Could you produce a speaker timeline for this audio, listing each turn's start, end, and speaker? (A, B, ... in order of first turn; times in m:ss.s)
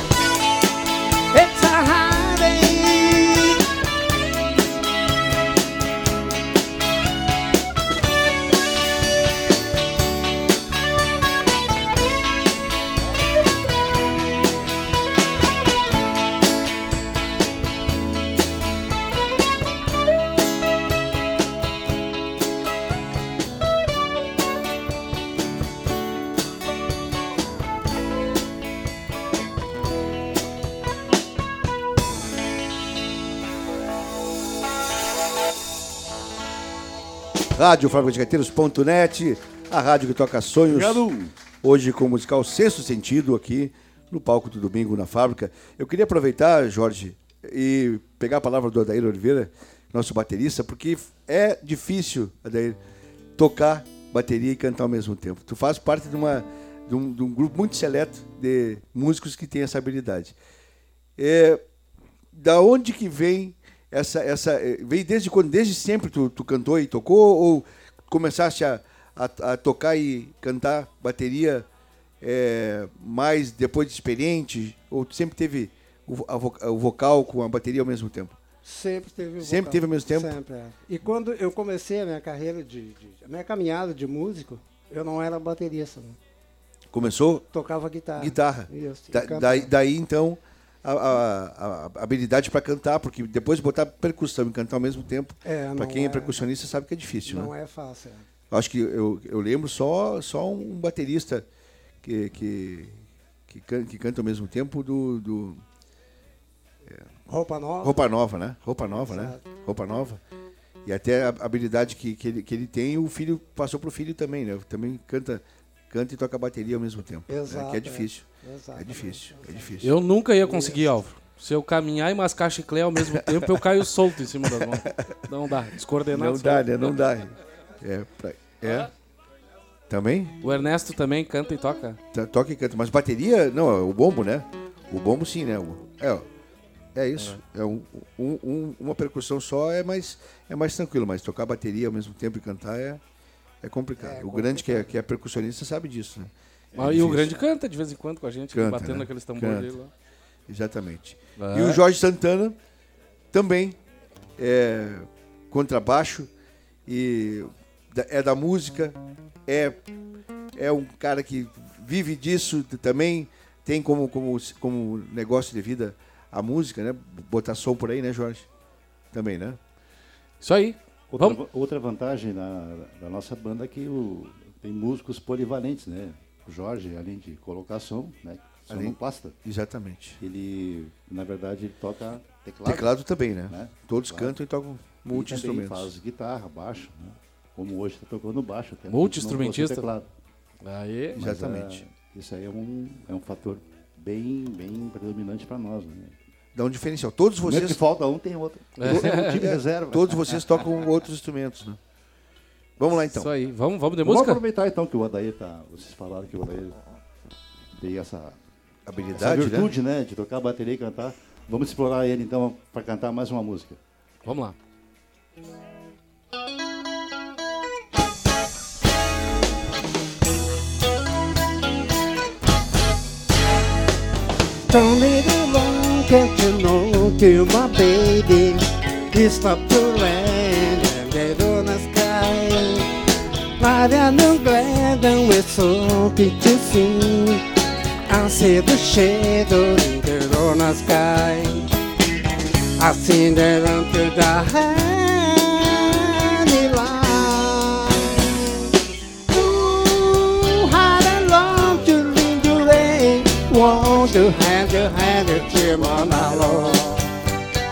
0:01.3-0:03.6 A
0:37.6-0:41.0 B
0:40.7-0:41.3 C
0:41.6-0:52.8 B
0:53.4-1:00.4 B
1:01.2-1:01.6 B
1:02.3-1:11.6 B
1:12.2-1:18.3 B
1:18.6-1:26.2 D
1:19.4-1:20.4 B
1:26.9-1:27.5 B
1:27.5-1:29.7 D
1:28.2-1:37.5 B
1:35.4-1:36.4 D
1:37.3-1:38.2 D
1:38.5-1:41.4 B
1:42.0-1:43.0 B
1:43.5-1:45.6 B
1:46.8-1:47.1 B
1:47.3-1:48.0 D
1:47.8-1:50.2 B
1:48.8-1:49.5 D
1:50.8-1:59.9 B
1:57.3-1:59.7 D
1:59.8-2:07.0 E
2:03.0-2:03.5 B
2:06.1-2:08.9 B
2:09.9-2:10.3 B
2:10.4-2:12.0 E
2:12.1-2:16.2 B
2:16.9-2:23.0 B
2:23.6-2:27.4 B
2:24.0-2:24.9 D
2:26.8-2:29.9 E
2:28.5-2:29.7 B
2:30.5-2:32.6 B
2:31.4-2:31.8 E
2:33.3-2:33.8 B
2:34.4-2:36.3 B
2:36.9-2:39.0 B
2:39.5-2:39.8 B
2:40.6-2:48.5 B
2:49.1-2:49.6 B
2:50.4-2:51.4 E
2:51.1-2:59.4 C
2:58.7-3:00.2 B
3:00.2-3:02.9 C
3:02.6-3:05.9 B
3:03.5-3:04.4 C
3:05.1-3:10.1 C
3:08.9-3:09.9 E
3:10.6-3:11.2 E
3:11.1-3:16.1 C
3:11.2-3:11.8 B
3:16.5-3:17.8 B
3:17.4-3:20.6 C
3:18.8-3:19.4 E
3:18.8-3:21.8 B
3:22.8-3:23.3 B
3:23.1-3:24.4 E
3:24.0-3:26.8 C
3:27.8-3:28.4 C
3:28.9-3:29.7 B
3:29.1-3:33.8 C
3:34.2-3:34.5 E
3:44.7-3:52.9 A
3:53.6-3:57.4 A
3:58.1-4:01.7 A
4:02.8-4:08.4 A
4:09.3-4:17.1 A